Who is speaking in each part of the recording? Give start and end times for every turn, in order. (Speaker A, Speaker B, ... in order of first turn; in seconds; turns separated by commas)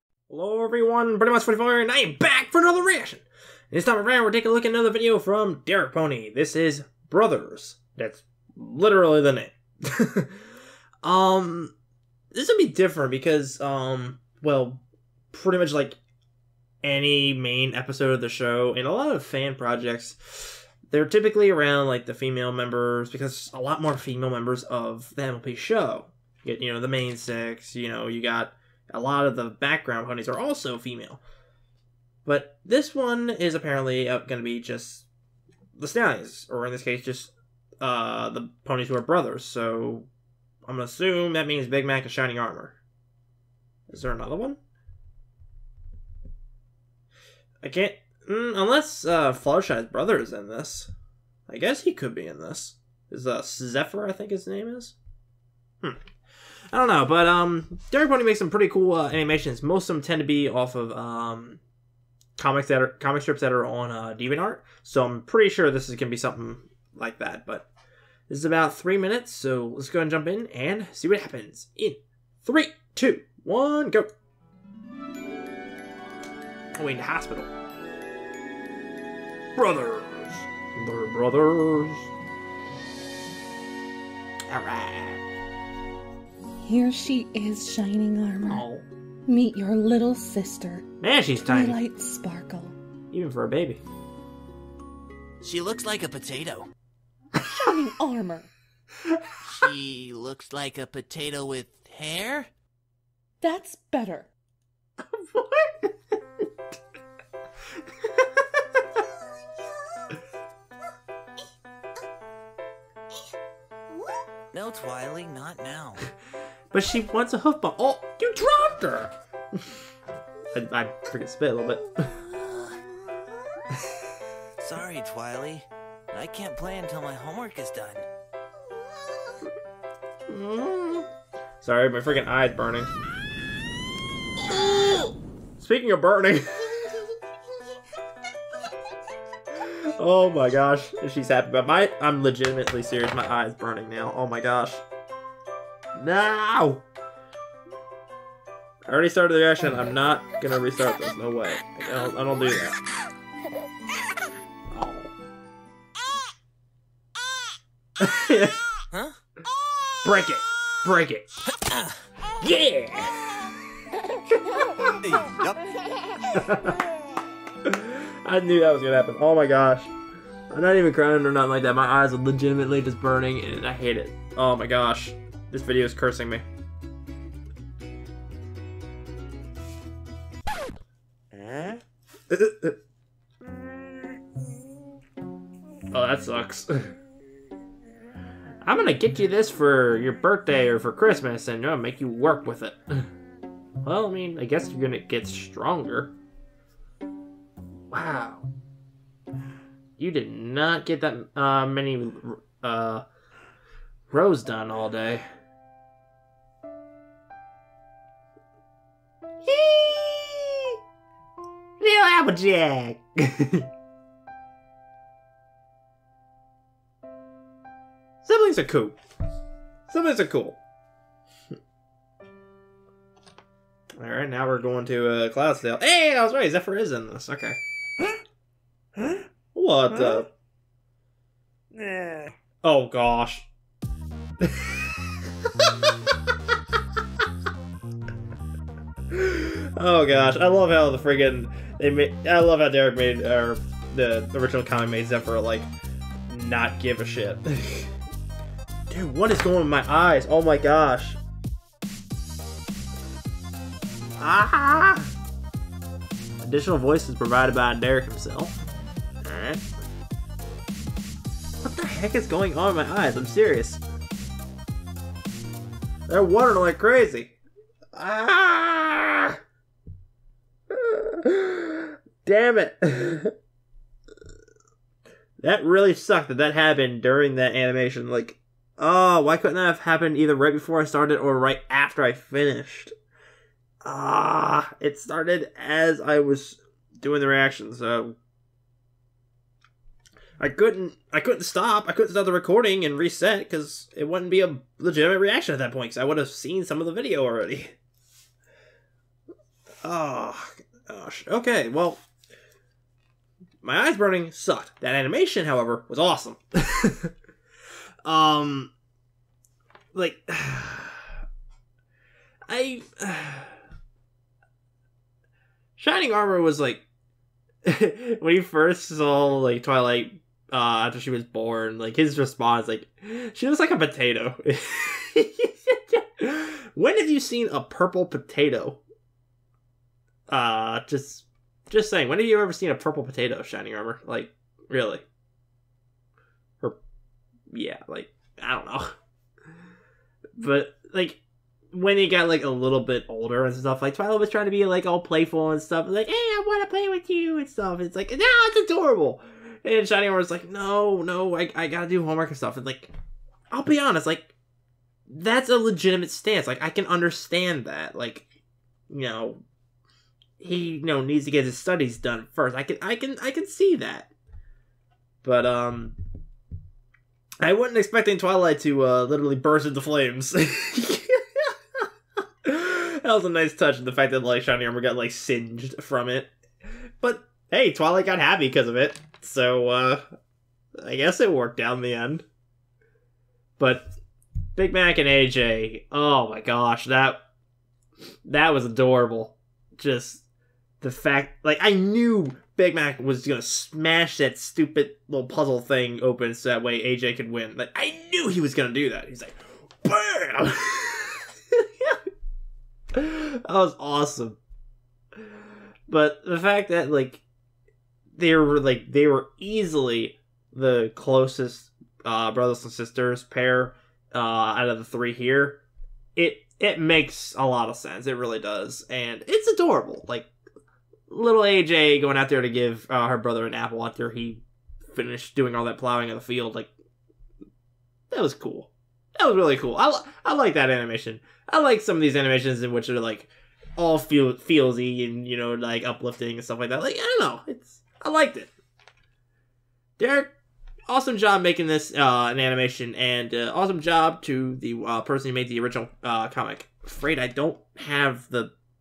Speaker A: 0.3-10.4, Speaker A: 11.0-11.7, Speaker A: 12.3-16.0, Speaker A: 16.8-31.2, Speaker A: 32.2-35.1, Speaker A: 35.8-40.1, Speaker A: 40.7-42.8, Speaker A: 43.9-44.6, Speaker A: 47.6-50.9, Speaker A: 51.5-55.0, Speaker A: 56.7-61.6, Speaker A: 62.4-67.7, Speaker A: 68.3-74.1, Speaker A: 76.7-77.5, Speaker A: 79.5-82.1, Speaker A: 84.5-85.2, Speaker B: 86.6-88.5, Speaker A: 88.4-88.8, Speaker B: 89.3-90.8, Speaker A: 91.0-91.8, Speaker B: 91.6-92.8, Speaker A: 93.1-93.8, Speaker C: 95.4-96.7, Speaker B: 97.6-98.5, Speaker C: 99.5-102.5, Speaker B: 103.4-104.3, Speaker A: 105.0-105.9, Speaker C: 114.5-116.0, Speaker A: 116.7-119.1, Speaker A: 120.5-122.2, Speaker C: 122.4-122.7, Speaker C: 124.6-128.1, Speaker A: 130.3-131.1, Speaker A: 131.6-132.9, Speaker A: 134.5-136.7, Speaker A: 139.6-144.8, Speaker A: 145.9-146.8, Speaker A: 148.8-152.8, Speaker A: 154.7-155.1, Speaker A: 158.0-158.6, Speaker A: 160.0-161.4, Speaker A: 162.4-163.6, Speaker A: 164.1-164.9, Speaker C: 165.0-165.6, Speaker A: 166.2-166.8, Speaker A: 167.6-169.9, Speaker A: 170.5-176.4, Speaker C: 181.3-181.8, Speaker A: 182.3-182.7, Speaker A: 185.9-186.9, Speaker A: 188.6-193.1, Speaker A: 193.8-196.1, Speaker A: 197.9-198.5, Speaker A: 200.0-203.0, Speaker A: 204.1-205.2, Speaker A: 209.4-210.7, Speaker A: 211.8-213.7, Speaker A: 218.2-219.0, Speaker A: 219.9-220.6, Speaker A: 224.0-227.6, Speaker A: 229.0-230.3, Speaker A: 232.6-233.5, Speaker A: 234.4-234.8, Speaker A: 239.1-245.7, Speaker A: 246.3-247.9, Speaker A: 248.9-251.2, Speaker A: 254.2-255.1, Speaker A: 256.4-258.5, Speaker A: 259.2-259.6, Speaker A: 261.6-263.8, Speaker A: 266.1-267.4, Speaker A: 267.9-269.4, Speaker A: 270.7-273.3, Speaker A: 275.4-282.9, Speaker A: 283.8-288.1, Speaker A: 290.4-297.7, Speaker A: 299.8-302.0, Speaker A: 303.6-307.1, Speaker A: 308.0-308.7, Speaker A: 309.9-311.1, Speaker A: 312.5-313.6, Speaker A: 315.8-316.8, Speaker A: 317.6-328.8, Speaker A: 330.3-335.0, Speaker A: 337.5-338.9, Speaker A: 340.4-341.2, Speaker A: 341.7-352.9, Speaker A: 353.5-354.3, Speaker A: 355.1-358.2, Speaker A: 358.9-359.4, Speaker A: 360.4-364.1, Speaker A: 365.2-366.0, Speaker A: 367.4-371.8, Speaker A: 372.4-376.3, Speaker A: 377.0-380.0, Speaker A: 380.8-382.2, Speaker A: 383.6-383.9, Speaker A: 384.5-387.2, Speaker A: 388.2-390.2, Speaker A: 390.8-402.0, Speaker A: 402.9-404.4, Speaker A: 405.9-407.2, Speaker A: 408.1-415.6, Speaker A: 416.1-420.3, Speaker A: 421.1-426.7, Speaker A: 428.1-438.5, Speaker A: 440.0-440.3, Speaker A: 440.9-448.5